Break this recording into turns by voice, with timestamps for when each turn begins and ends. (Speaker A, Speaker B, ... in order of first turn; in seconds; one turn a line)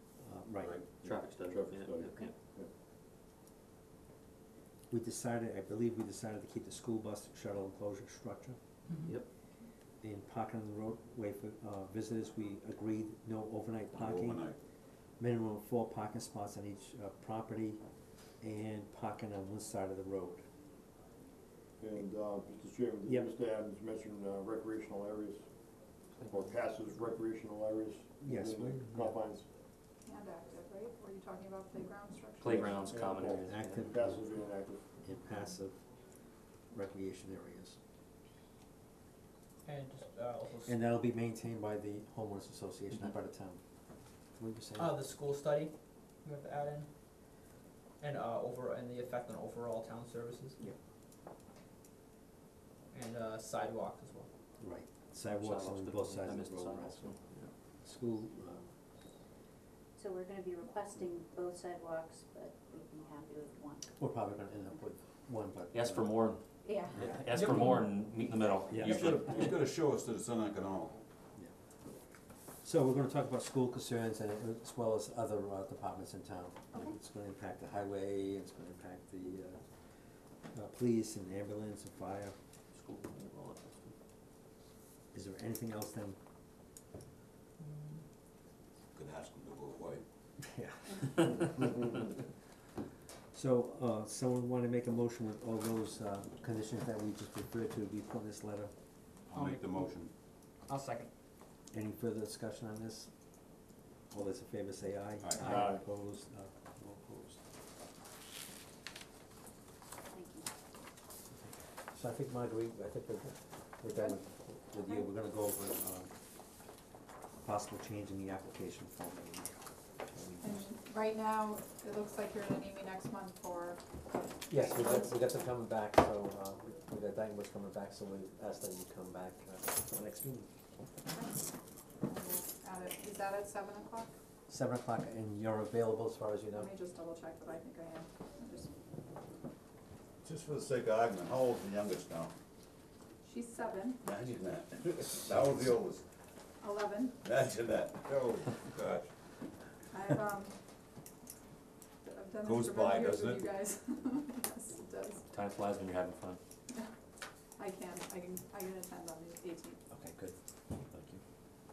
Speaker A: 0.2-0.8
Speaker B: 0.6-2.3
Speaker C: 1.0-2.7
Speaker A: 4.9-8.6
Speaker A: 10.0-14.4
Speaker D: 13.9-14.6
Speaker A: 15.2-17.8
Speaker A: 18.4-20.5
Speaker C: 21.8-25.5
Speaker C: 26.2-29.5
Speaker A: 28.2-29.1
Speaker E: 30.1-32.9
Speaker B: 32.4-33.8
Speaker C: 32.5-34.9
Speaker A: 33.5-34.3
Speaker A: 35.0-35.8
Speaker A: 36.7-37.8
Speaker F: 39.6-40.8
Speaker A: 40.6-43.6
Speaker A: 44.3-45.0
Speaker F: 44.8-46.9
Speaker F: 48.0-50.6
Speaker F: 52.9-54.3
Speaker A: 54.6-57.2
Speaker B: 55.3-57.5
Speaker A: 57.8-58.6
Speaker G: 60.0-63.9
Speaker A: 64.0-66.2
Speaker B: 65.7-66.4
Speaker G: 66.6-67.0
Speaker B: 67.0-69.4
Speaker F: 67.3-67.9
Speaker A: 68.7-69.2
Speaker D: 68.8-71.0
Speaker A: 72.6-79.6
Speaker A: 80.5-82.3
Speaker B: 82.7-84.0
Speaker A: 85.1-86.2
Speaker D: 88.9-90.0
Speaker A: 90.4-91.9
Speaker A: 93.3-98.7
Speaker D: 99.3-100.1
Speaker F: 99.3-99.9
Speaker F: 100.7-101.1
Speaker A: 101.7-103.1
Speaker A: 104.1-107.4
Speaker D: 105.2-105.6
Speaker F: 105.4-105.7
Speaker B: 105.5-105.8
Speaker G: 110.1-110.5
Speaker A: 111.3-116.1
Speaker E: 113.9-114.2
Speaker A: 117.4-120.7
Speaker E: 120.4-123.8
Speaker E: 124.5-125.1
Speaker A: 124.5-130.5
Speaker E: 131.1-131.5
Speaker E: 132.0-134.1
Speaker A: 134.5-136.7
Speaker E: 136.5-138.7
Speaker D: 140.2-142.3
Speaker E: 143.2-144.0
Speaker D: 144.0-146.0
Speaker E: 146.6-147.2
Speaker D: 147.2-149.1
Speaker E: 149.9-150.6
Speaker E: 152.0-155.3
Speaker D: 152.4-153.5
Speaker B: 155.3-156.4
Speaker E: 157.6-159.8
Speaker A: 159.9-160.3
Speaker B: 160.9-161.2